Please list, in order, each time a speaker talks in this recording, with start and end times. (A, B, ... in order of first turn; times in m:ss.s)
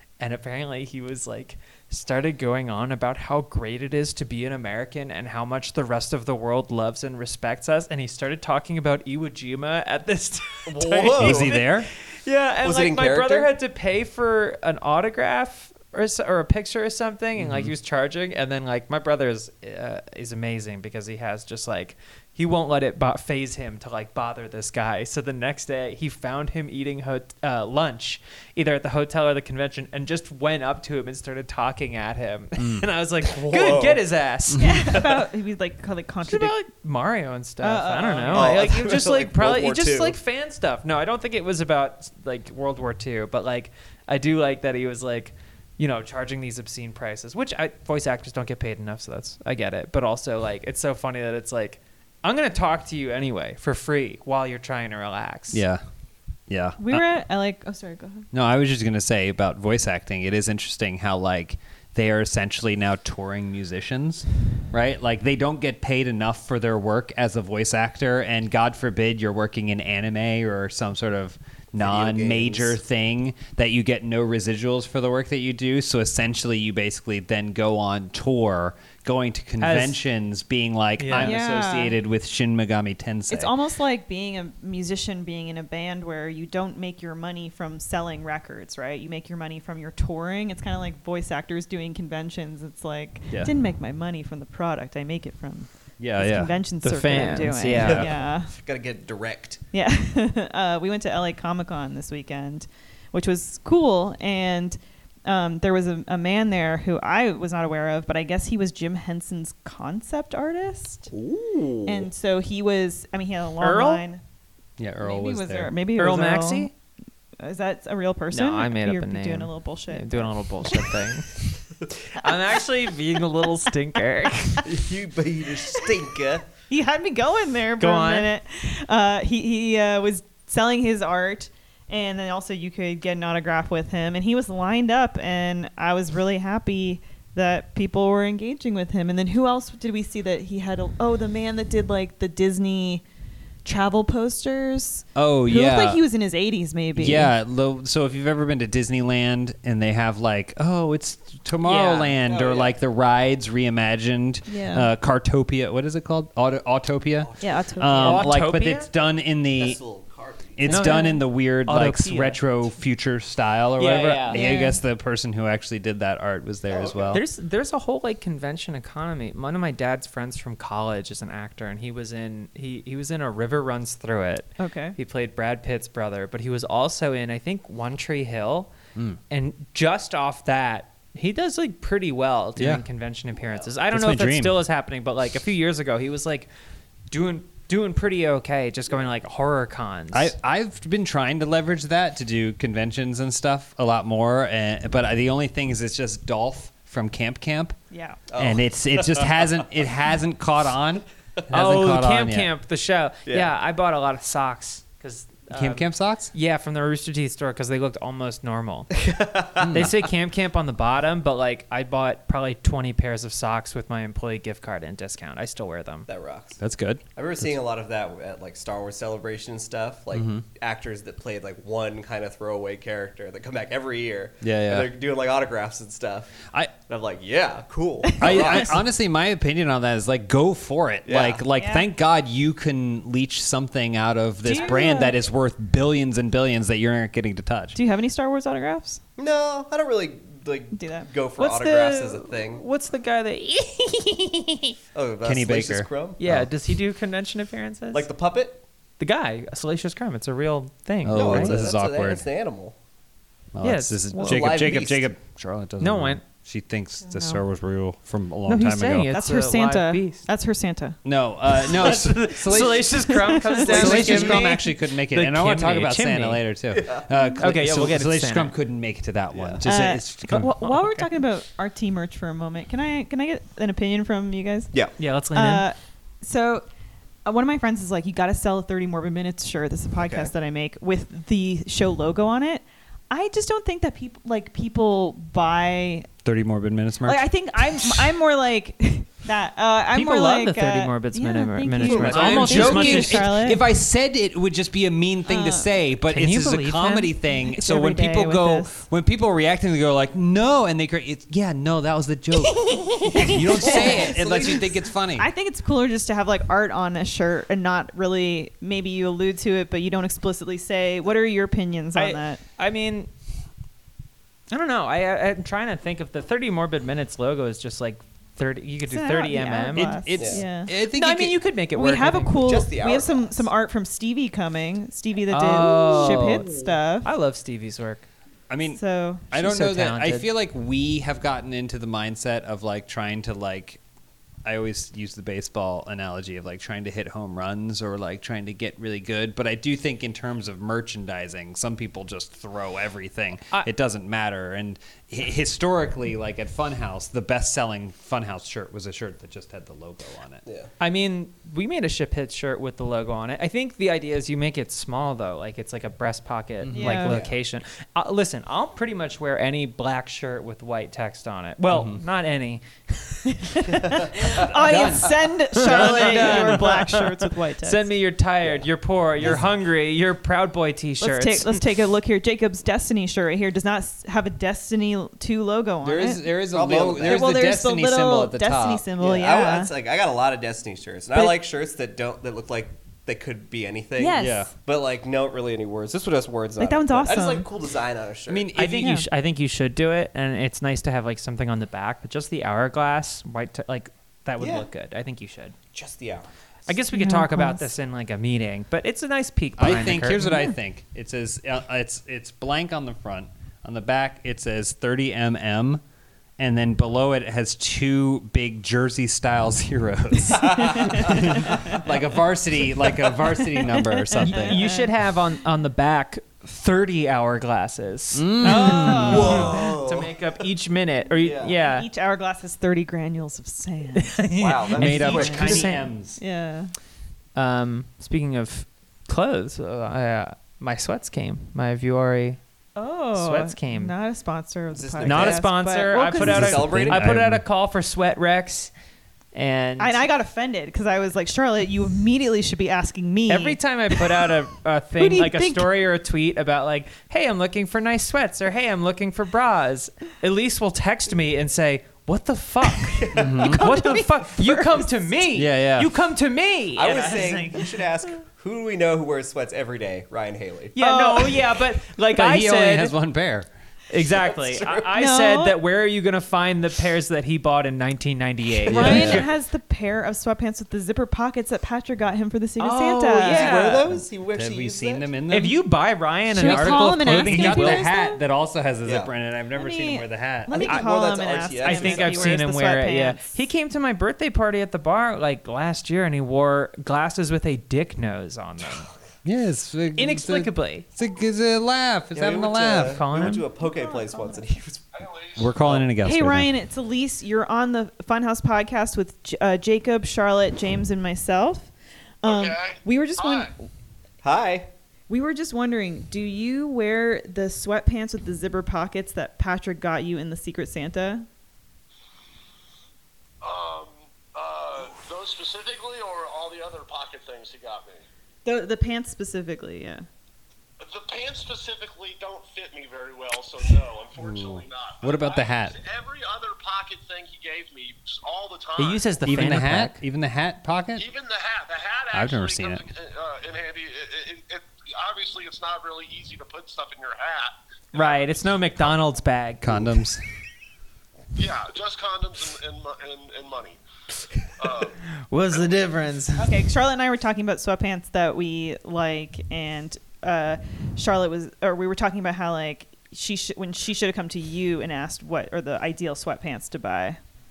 0:00.2-0:35.1 A
0:10.7-0:11.6 B
0:11.2-0:11.9 C
0:12.6-0:13.5 B
0:17.4-0:17.7 C
0:32.6-0:32.9 C
0:33.2-0:34.1 B
0:34.6-0:36.6 D
0:36.2-0:55.6 A
0:37.6-0:38.6 D
0:38.3-0:40.2 B
0:55.5-0:55.8 C
0:56.5-0:57.0 C
0:56.8-0:58.3 D
0:58.3-1:23.5 C
1:11.8-1:12.8 B
1:19.6-1:20.0 A
1:21.0-1:21.4 A
1:21.2-1:22.0 D
1:23.3-1:38.5 D
1:36.0-1:36.5 C
1:36.8-1:38.1 A
1:37.7-1:38.1 C
1:37.8-1:39.6 B
1:39.7-1:51.1 D
1:51.1-1:52.1 B
1:51.9-1:54.2 D
1:53.6-1:54.0 A
1:54.8-1:55.7 C
1:55.0-1:56.7 D
1:56.0-1:56.7 A
1:57.4-2:01.0 D
1:58.3-2:01.4 A
2:02.1-2:04.6 A
2:04.6-2:06.5 B
2:06.7-2:23.0 D
2:07.8-2:08.3 A
2:23.6-2:27.3 D
2:25.2-2:26.0 C
2:27.0-2:39.8 C
2:31.6-2:32.2 A
2:32.2-2:32.8 B
2:34.5-2:34.9 D
2:37.2-2:38.1 B
2:37.4-2:38.3 D
2:38.0-2:38.9 A
2:39.6-2:40.7 B
2:40.6-2:47.2 C
2:40.7-2:42.4 A
2:40.8-2:41.2 D
2:43.8-2:44.6 A
2:44.3-2:44.8 D
2:46.7-2:47.2 B
2:47.1-2:58.7 A
2:54.6-2:55.0 D
2:59.3-3:06.5 A
3:02.6-3:02.8 C
3:03.9-3:04.6 C
3:07.1-3:10.3 A
3:10.1-3:17.8 C
3:17.9-3:18.2 D
3:18.3-3:19.6 B
3:18.4-3:22.5 C
3:21.5-3:29.0 A
3:23.3-3:23.5 B
3:25.5-3:26.3 C
3:29.0-3:29.9 B
3:29.6-3:29.9 C
3:29.6-3:36.1 A
3:36.1-3:36.6 B
3:36.6-3:37.5 C
3:37.2-3:46.4 B
3:40.1-3:40.4 C
3:44.4-3:44.9 C
3:46.9-3:48.8 B
3:48.1-3:48.8 D
3:48.2-3:57.8 C
3:51.0-3:51.4 B
3:51.6-3:51.9 D
3:54.4-3:55.2 D
3:57.8-3:59.0 D
3:59.2-4:02.6 B
4:00.8-4:01.1 D
4:01.4-4:04.8 A
4:04.9-4:06.2 B
4:05.2-4:06.5 C
4:06.2-4:08.1 A
4:07.9-4:08.6 B
4:09.0-4:11.6 A
4:11.0-4:12.2 C
4:11.1-4:12.8 B
4:13.6-4:19.1 C
4:13.6-4:14.6 A
4:14.2-4:15.1 B
4:15.8-4:16.2 A
4:17.1-4:17.4 D
4:18.5-4:20.3 A
4:19.1-4:21.0 D
4:21.0-4:23.1 C
4:21.6-4:26.4 A
4:23.0-4:24.4 D
4:23.6-4:30.6 C
4:23.7-4:24.5 B
4:26.7-4:27.1 B
4:27.4-4:28.6 A
4:29.3-4:29.6 B
4:29.6-4:34.7 D
4:30.5-4:31.1 A
4:35.0-4:35.6 A
4:35.3-4:36.6 D
4:37.2-4:46.1 D
4:40.0-4:40.3 B
4:46.2-4:47.2 C
4:47.0-4:53.6 D
4:49.9-4:53.6 A
4:51.8-4:52.7 B
4:52.0-5:05.3 C
4:55.3-4:55.7 D
4:56.1-4:57.2 A
4:57.3-4:58.8 D
5:02.6-5:04.6 D
5:03.6-5:04.7 B
5:05.2-5:12.4 D
5:12.0-5:13.1 A
5:14.5-5:20.0 A
5:18.9-5:20.7 D
5:19.8-5:21.4 C
5:20.2-5:20.4 B
5:20.9-5:22.5 A
5:21.7-5:27.1 D
5:22.4-5:23.5 B
5:25.3-5:28.1 A
5:28.5-5:33.8 C
5:28.8-5:29.3 D
5:29.3-5:30.3 A
5:34.4-5:50.4 C
5:50.4-5:50.7 B
5:50.8-6:03.3 A
5:56.6-5:57.0 C
5:56.8-5:57.2 D
5:57.0-5:57.4 B
6:01.7-6:02.0 C
6:03.3-6:07.9 D
6:03.8-6:04.4 B
6:04.3-6:06.6 C
6:05.6-6:11.6 A
6:09.2-6:09.5 B
6:11.0-6:16.2 D
6:15.8-6:18.8 C
6:16.5-6:17.4 B
6:17.0-6:19.7 D
6:19.0-6:28.5 B
6:21.1-6:21.4 D
6:24.0-6:24.5 D
6:24.2-6:24.5 C
6:26.6-6:27.5 D
6:28.3-6:29.0 C
6:28.6-6:35.6 A
6:34.4-6:34.7 B
6:35.7-6:36.3 B
6:36.7-6:40.4 A
6:36.9-6:37.7 D
6:39.6-6:45.8 C
6:46.4-6:54.7 C
6:50.4-6:51.4 B
6:50.7-6:51.8 D
6:53.5-6:54.9 D
6:54.2-7:01.9 A
6:58.1-6:59.5 C
6:58.4-6:59.7 D
6:58.8-7:00.3 B
7:01.2-7:01.6 B
7:01.6-7:04.1 D
7:04.0-7:05.9 A
7:04.4-7:05.7 B
7:04.8-7:06.2 C
7:05.1-7:05.6 D
7:06.2-7:06.7 D
7:07.4-7:12.4 A
7:12.8-7:16.6 D
7:13.1-7:14.0 A
7:14.7-7:15.4 B
7:15.0-7:18.7 A
7:16.2-7:17.1 B
7:16.3-7:17.4 C
7:19.3-7:20.0 A
7:19.8-7:24.2 D
7:23.3-7:37.7 A
7:25.0-7:25.7 D
7:33.0-7:33.6 B
7:33.1-7:33.6 C
7:33.5-7:34.9 D
7:35.3-7:35.9 C
7:36.8-7:40.8 B
7:40.8-7:43.0 A
7:40.8-7:41.4 D
7:42.2-7:43.5 C
7:43.9-7:49.3 A
7:44.2-7:44.9 B
7:45.0-7:45.6 D
7:48.7-7:49.2 B
7:48.7-7:53.6 D
7:48.7-7:49.3 C
7:52.6-7:53.9 A
7:53.2-7:55.1 B
7:53.9-7:55.6 C
7:55.3-7:57.8 A
7:56.3-7:58.2 D
7:56.4-8:00.8 C
7:58.8-7:59.1 B
7:59.5-8:03.4 D
8:00.5-8:02.4 B
8:01.6-8:08.9 A
8:09.2-8:13.0 C
8:10.0-8:10.8 A
8:12.1-8:15.1 B
8:12.8-8:13.5 A
8:13.6-8:14.4 D
8:15.0-8:15.4 E
8:15.4-8:16.5 C
8:16.0-8:21.7 D
8:22.2-8:23.7 D
8:22.2-8:23.5 E
8:24.2-8:24.7 B
8:25.1-8:31.3 D
8:33.4-8:38.0 E
8:38.4-8:40.1 D
8:40.8-8:49.1 E
8:44.2-8:45.8 C
8:48.8-8:50.0 A
8:49.2-8:51.1 C
8:51.0-8:58.4 E
8:52.1-8:52.9 C
8:57.9-8:59.9 A
8:59.6-9:00.2 C
9:01.4-9:03.8 E
9:04.6-9:05.0 E
9:05.3-9:06.5 A
9:05.5-9:05.8 E
9:06.4-9:17.2 D